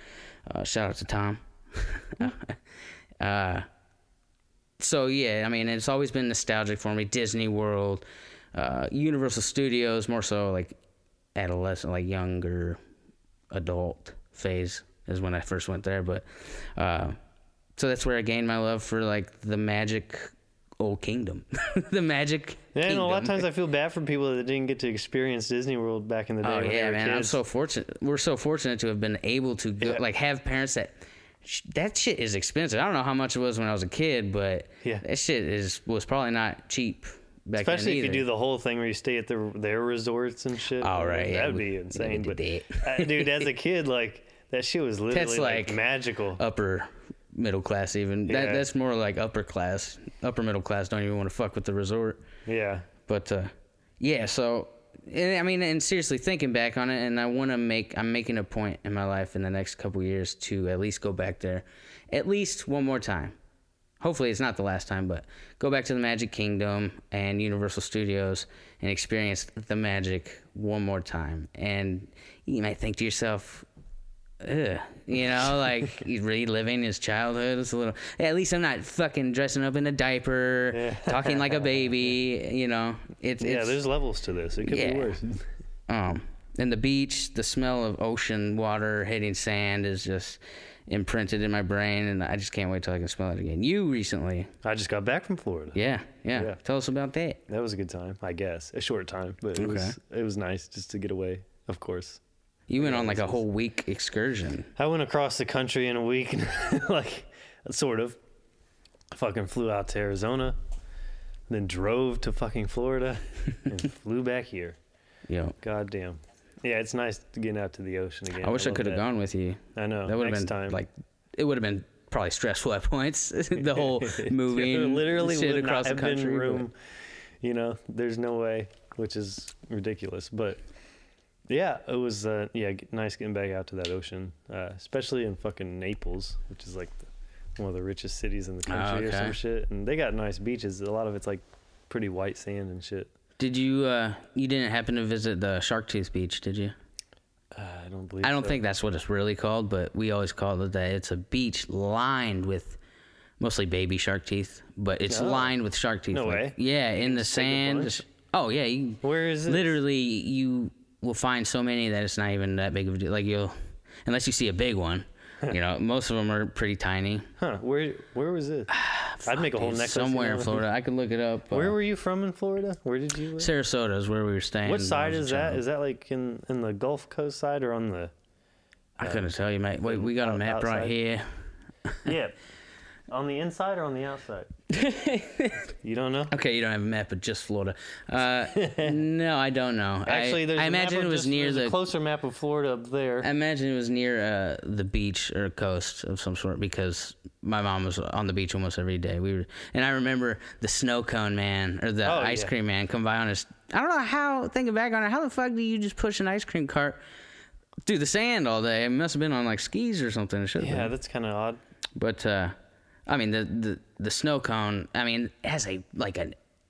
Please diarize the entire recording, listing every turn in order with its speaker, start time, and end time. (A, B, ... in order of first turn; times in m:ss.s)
0:00.5-0:02.6 A
0:03.2-0:03.7 A
0:04.8-0:10.8 A
0:11.4-0:12.8 A
0:13.5-0:17.2 A
0:17.8-0:23.5 A
0:22.7-0:27.4 B
0:26.4-0:38.3 A
0:37.6-0:46.4 B
0:40.8-0:43.5 A
0:45.1-0:45.8 A
0:46.4-0:52.2 A
0:48.3-0:48.6 B
0:52.5-0:52.9 B
0:53.1-1:03.4 A
1:04.0-1:13.7 A
1:14.4-1:23.8 A
1:20.7-1:21.9 B
1:23.4-1:25.4 B
1:24.6-1:25.2 A
1:25.9-1:34.5 A
1:34.6-1:35.8 B
1:35.8-1:37.4 A
1:37.5-1:42.2 B
1:39.6-1:40.0 A
1:42.7-1:44.7 A
1:42.8-1:43.4 B
1:44.8-1:48.2 B
1:49.1-1:50.6 B
1:51.5-1:54.8 B
1:55.3-1:55.6 A
1:55.6-1:59.1 B
1:58.4-2:06.7 A
1:59.8-2:00.8 B
2:03.6-2:06.8 B
2:07.4-2:10.6 B
2:11.5-2:23.1 B
2:18.7-2:19.4 A
2:23.4-2:26.7 A
2:27.5-2:28.6 B
2:28.2-2:32.8 A
2:33.4-2:43.5 A
2:35.1-2:35.6 B
2:36.1-2:38.0 B
2:39.0-2:39.8 B
2:44.0-2:47.3 A
2:47.4-2:48.7 B
2:48.7-2:51.8 A
2:49.3-2:50.7 B
2:51.5-2:53.5 B
2:53.4-2:55.6 A
2:54.6-2:58.1 B
2:59.0-3:01.3 A
2:59.0-2:59.3 B
2:59.8-3:01.0 B
3:02.0-3:02.4 B
3:03.1-3:04.5 B
3:04.7-3:05.7 A
3:05.8-3:06.3 B
3:06.3-3:11.8 A
3:08.5-3:09.0 B
3:10.1-3:13.3 B
3:13.2-3:27.0 A
3:22.0-3:22.5 B
3:27.9-3:30.9 A
3:30.6-3:31.6 B
3:32.0-3:32.6 A
3:33.1-3:36.4 A